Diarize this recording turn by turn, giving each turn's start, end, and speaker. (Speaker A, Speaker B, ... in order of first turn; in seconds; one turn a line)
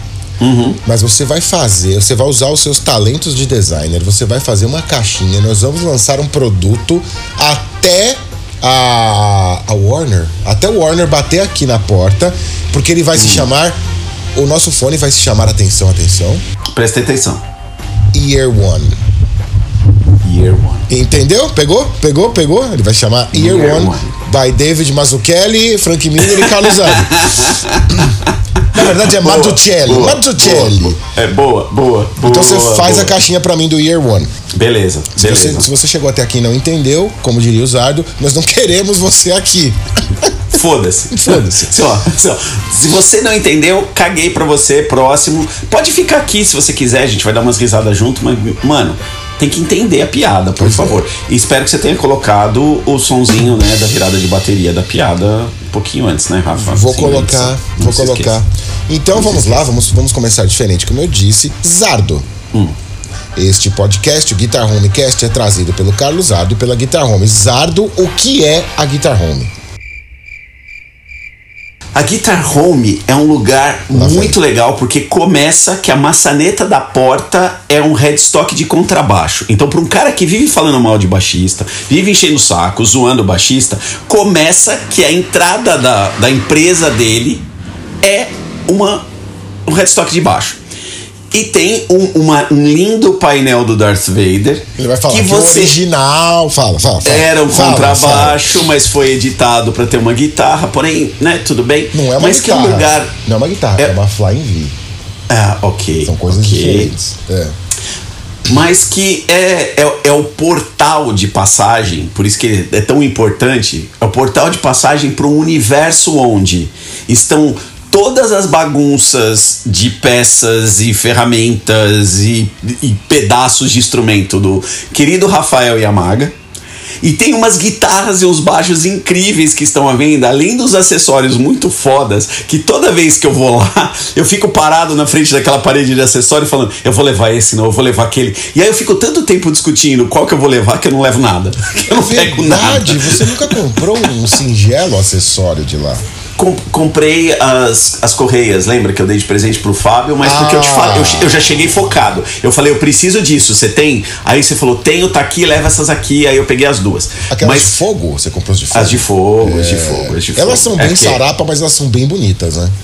Speaker A: 0.4-0.8
Speaker B: 0.8-13.8
Speaker A: 13.2-13.5
Speaker B: 14.3-16.4
Speaker A: 16.7-17.4
Speaker B: 18.1-19.0
Speaker A: 20.2-20.9
Speaker B: 20.9-27.5
Speaker A: 23.3-24.1
Speaker A: 26.3-33.1
Speaker B: 28.7-31.0
Speaker B: 32.2-34.3
Speaker A: 34.5-35.7
Speaker B: 35.2-40.3
Speaker A: 40.5-58.4
Speaker B: 41.1-41.8
Speaker B: 50.6-51.0
Speaker B: 56.6-62.3
Speaker A: 59.2-59.5
Speaker B: 63.4-69.5
Speaker A: 72.0-87.5
Speaker B: 73.9-74.4
Speaker A: 88.0-89.0
Speaker A: 89.7-90.6
Speaker A: 91.3-95.8
Speaker B: 94.8-98.6
Speaker A: 97.0-103.1
Speaker B: 101.9-104.7
Speaker A: 105.3-106.9
Speaker B: 106.0-107.6
Speaker A: 108.5-126.3
Speaker A: 127.0-143.5
Speaker B: 141.9-146.0
Speaker A: 146.4-157.7
Speaker B: 150.2-151.4
Speaker B: 157.3-162.7
Speaker A: 158.7-161.2